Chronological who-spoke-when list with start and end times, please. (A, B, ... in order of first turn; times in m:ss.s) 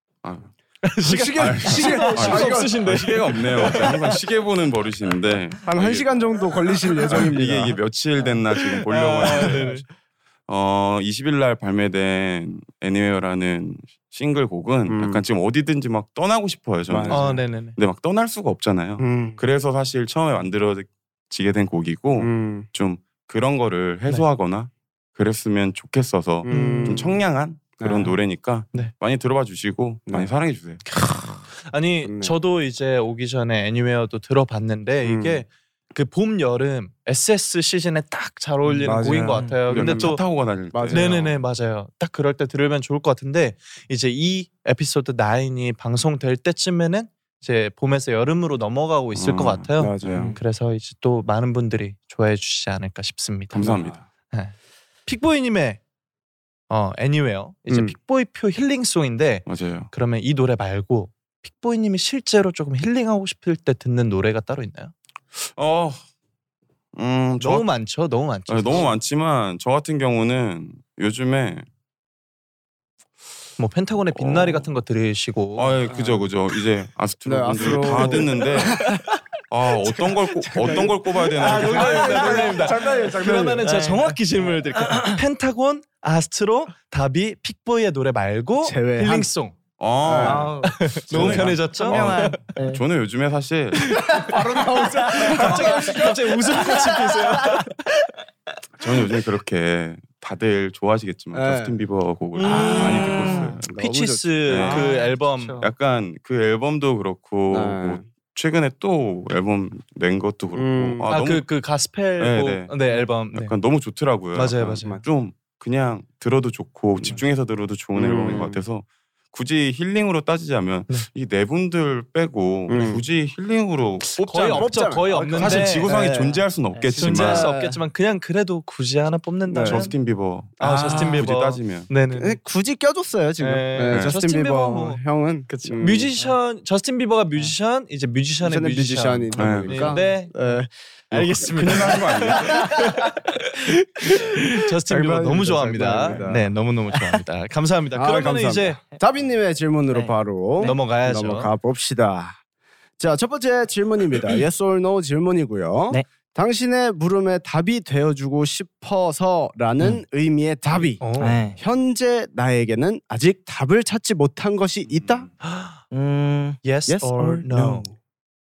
0:00.2-0:00.5 A
0:00.8-0:04.2 B
0:01.0-0:02.8 C
0:01.4-0:06.1 A
0:05.6-0:07.8 C
0:07.1-0:07.3 B
0:07.1-0:09.8 A
0:08.6-0:09.8 B
0:09.2-0:09.6 C
0:10.5-0:30.9 A
0:14.9-0:15.2 C
0:16.9-0:17.4 C
0:17.1-0:17.8 B
0:19.0-0:19.4 C
0:22.2-0:22.7 C
0:26.4-0:27.2 C
0:26.5-0:27.0 B
0:27.8-0:28.2 C
0:30.9-0:40.2 B
0:32.0-0:32.4 C
0:35.0-0:35.4 C
0:38.8-0:40.1 C
0:39.3-0:39.7 D
0:39.7-0:41.2 A
0:40.7-0:41.3 C
0:40.9-0:53.8 B
0:49.1-0:50.3 A
0:49.8-0:50.4 C
0:53.5-0:54.0 A
0:53.5-0:54.0 C
0:55.0-0:55.8 B
0:56.7-1:04.9 B
0:57.7-0:58.0 C
0:59.4-0:59.9 A
1:05.4-1:06.0 A
1:06.9-1:07.7 A
1:07.4-1:08.9 B
1:08.5-1:11.6 A
1:13.6-1:15.8 B
1:14.1-1:14.7 A
1:15.6-1:18.9 A
1:15.9-1:16.3 C
1:17.2-1:19.0 C
1:17.9-1:18.2 B
1:18.8-1:19.1 B
1:19.5-1:22.5 A
1:20.0-1:23.6 C
1:21.3-1:29.5 B
1:23.6-1:25.2 D
1:28.6-1:29.3 C
1:29.8-1:30.5 A
1:30.0-1:30.5 C
1:30.2-1:32.8 D
1:30.6-1:32.5 B
1:31.1-1:34.0 A
1:31.1-1:31.5 C
1:33.7-1:37.7 B
1:34.1-1:37.4 C
1:38.8-1:43.7 A
1:41.3-1:41.8 C
1:42.4-1:45.6 B
1:42.4-1:43.6 D
1:42.4-1:44.9 C
1:44.5-1:45.0 A
1:44.6-1:45.7 D
1:45.6-1:51.4 A
1:47.5-1:48.0 C
1:50.5-1:51.1 C
1:51.1-1:53.5 B
1:52.2-1:52.7 A
1:53.3-2:07.5 A
1:54.3-1:55.0 B
1:57.9-1:58.6 C
2:02.7-2:03.0 C
2:04.2-2:06.0 B
2:04.3-2:06.4 C
2:06.7-2:07.8 D
2:07.0-2:09.9 B
2:07.0-2:07.5 C
2:09.5-2:09.9 C
2:09.6-2:11.9 A
2:10.6-2:12.4 B
2:10.9-2:11.2 D
2:12.1-2:16.1 C
2:13.4-2:15.0 B
2:15.5-2:16.4 D
2:15.8-2:20.6 B
2:18.4-2:20.7 C
2:19.4-2:20.0 A
2:21.1-2:22.8 A
2:21.1-2:28.8 B
2:24.4-2:26.5 C
2:28.0-2:32.4 C
2:29.9-2:30.8 D
2:30.6-2:31.5 B
2:33.0-2:45.3 C
2:41.0-2:41.4 B
2:41.2-2:41.6 D
2:44.9-2:45.2 A
2:45.4-2:45.8 B
2:45.9-2:46.6 D
2:46.6-2:47.9 B
2:46.9-2:48.0 C